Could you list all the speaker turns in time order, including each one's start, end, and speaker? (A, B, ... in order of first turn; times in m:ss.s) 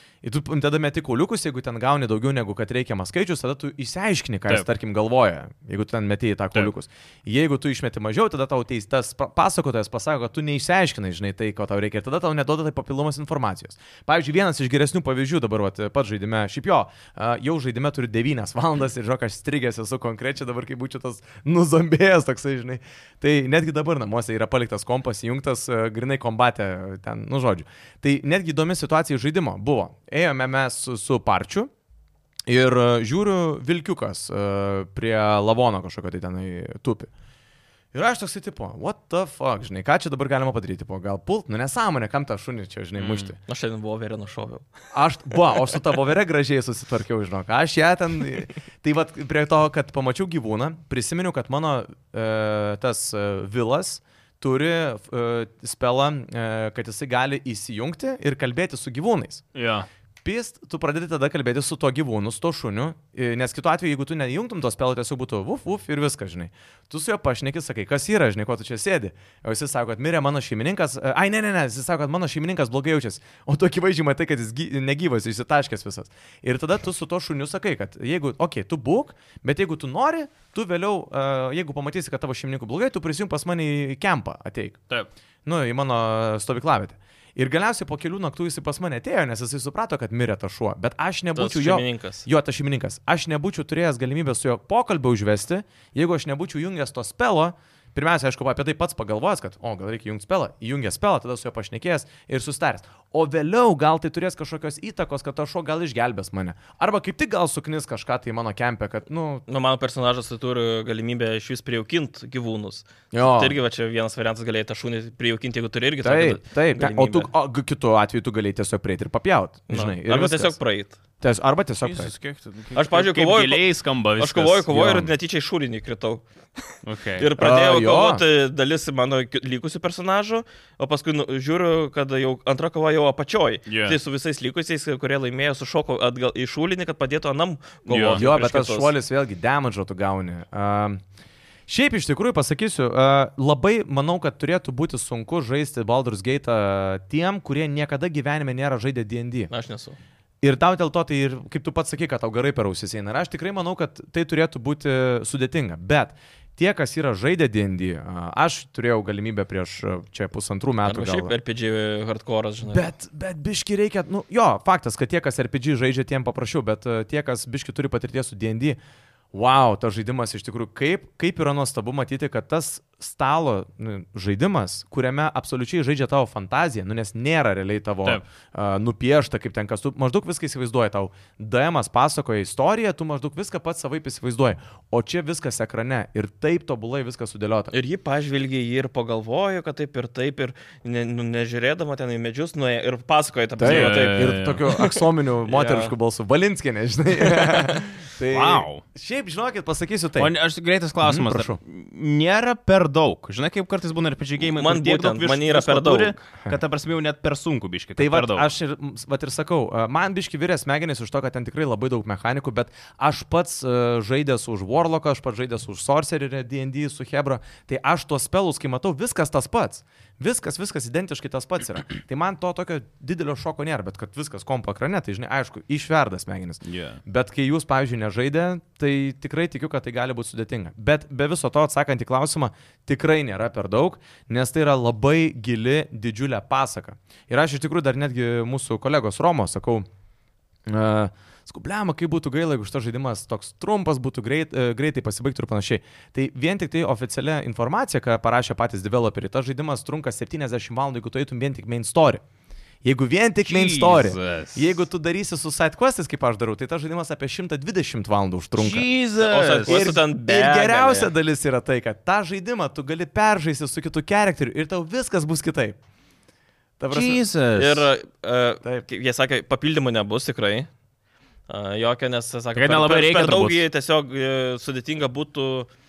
0:00.2-0:31.7 A
0:32.5-0:37.1 A
0:37.9-0:43.4 A
0:43.0-0:43.3 B
0:43.5-0:44.7 C
0:44.9-0:59.4 A
0:59.5-0:59.9 B
1:00.2-1:24.8 A
1:25.4-1:49.4 A
1:31.3-1:32.2 C
1:49.5-1:57.3 C
1:53.1-1:53.6 A
1:56.0-2:00.6 A
1:59.7-2:01.0 C
2:01.2-2:02.1 A
2:01.8-2:04.8 B
2:02.7-2:03.6 C
2:04.2-2:18.9 C
2:04.7-2:05.1 A
2:06.8-2:07.3 B
2:07.4-2:08.2 A
2:13.6-2:14.0 B
2:17.9-2:18.2 B
2:18.1-2:21.0 A
2:21.7-2:29.5 A
2:29.5-2:30.0 C
2:30.4-2:41.3 A
2:40.8-2:42.9 C
2:42.6-2:48.8 A
2:49.3-3:07.7 A
3:07.7-3:14.4 C
3:13.6-3:20.3 A
3:13.6-3:14.7 B
3:15.4-3:15.9 C
3:17.4-3:17.7 C
3:18.3-3:18.8 B
3:20.2-3:28.5 B
3:21.0-3:21.6 A
3:24.4-3:26.2 C
3:28.0-3:59.9 A
3:46.6-3:47.0 B
4:00.7-4:12.2 A
4:12.8-4:18.9 A
4:13.5-4:14.8 B
4:18.6-4:19.9 B
4:19.2-4:21.1 C
4:19.6-4:25.8 A
4:26.8-4:27.2 A
4:26.9-4:27.9 B
4:27.6-4:30.7 C
4:31.5-4:35.7 C
4:32.6-4:33.6 B